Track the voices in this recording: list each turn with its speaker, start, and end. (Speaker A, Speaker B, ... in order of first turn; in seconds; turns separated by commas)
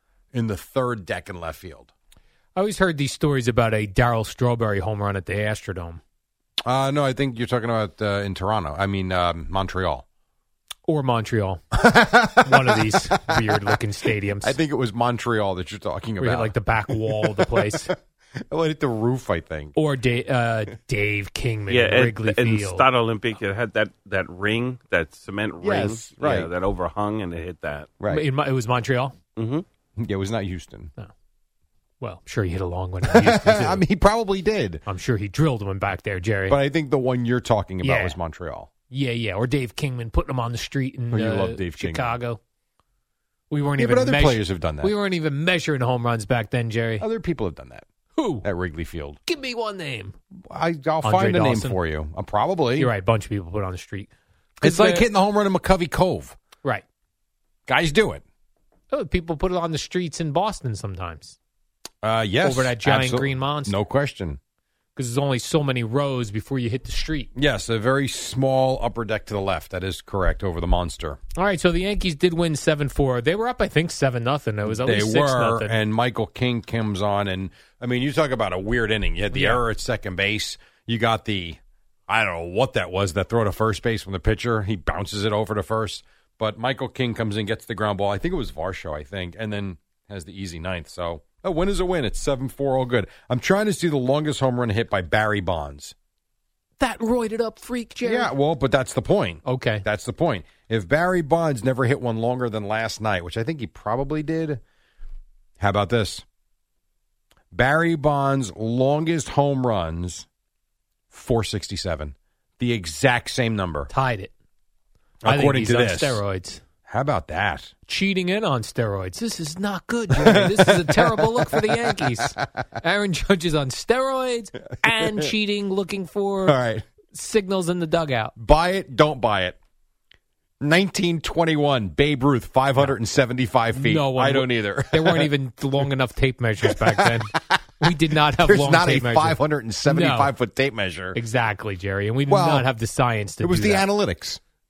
Speaker A: 0.3-1.9, Speaker B: 2.5-6.0, Speaker A: 6.7-10.0, Speaker B: 10.9-11.6, Speaker A: 11.7-13.8, Speaker B: 12.4-14.6, Speaker A: 14.4-17.9, Speaker B: 16.2-17.9, Speaker A: 18.5-19.7, Speaker B: 19.7-22.9, Speaker C: 21.7-28.0, Speaker A: 25.6-26.5, Speaker A: 28.0-28.2, Speaker B: 28.1-29.1, Speaker C: 29.4-29.6, Speaker A: 30.0-30.9, Speaker B: 32.0-33.8, Speaker A: 33.0-34.8, Speaker B: 34.9-36.6, Speaker A: 36.5-38.7, Speaker B: 37.8-38.2, Speaker B: 38.9-42.4, Speaker A: 41.1-42.1, Speaker B: 43.5-47.0, Speaker A: 43.8-44.9, Speaker A: 47.0-47.9, Speaker B: 48.1-48.5, Speaker A: 48.4-49.2, Speaker B: 49.2-50.1, Speaker A: 50.4-52.9, Speaker B: 51.0-51.8, Speaker B: 52.8-55.1, Speaker A: 54.6-56.4, Speaker A: 57.7-58.2, Speaker B: 58.9-61.4, Speaker A: 62.0-64.4, Speaker B: 62.4-63.8, Speaker B: 65.0-67.3, Speaker A: 67.3-71.2, Speaker B: 71.3-75.8, Speaker A: 74.6-95.9, Speaker B: 79.3-79.6, Speaker B: 96.8-98.3, Speaker A: 98.0-104.6, Speaker B: 99.4-99.8, Speaker A: 105.6-106.2, Speaker A: 107.5-110.2, Speaker A: 111.1-113.9, Speaker B: 113.9-114.3, Speaker A: 115.2-116.2, Speaker B: 115.2-116.6, Speaker A: 116.8-117.7, Speaker B: 117.9-126.6, Speaker A: 120.1-122.4, Speaker A: 124.8-125.3, Speaker A: 126.5-126.8, Speaker B: 127.1-128.3, Speaker A: 128.3-129.6, Speaker A: 130.6-135.3, Speaker B: 133.7-140.3, Speaker A: 136.6-141.2, Speaker B: 141.1-143.8, Speaker A: 142.3-142.7, Speaker A: 143.4-144.4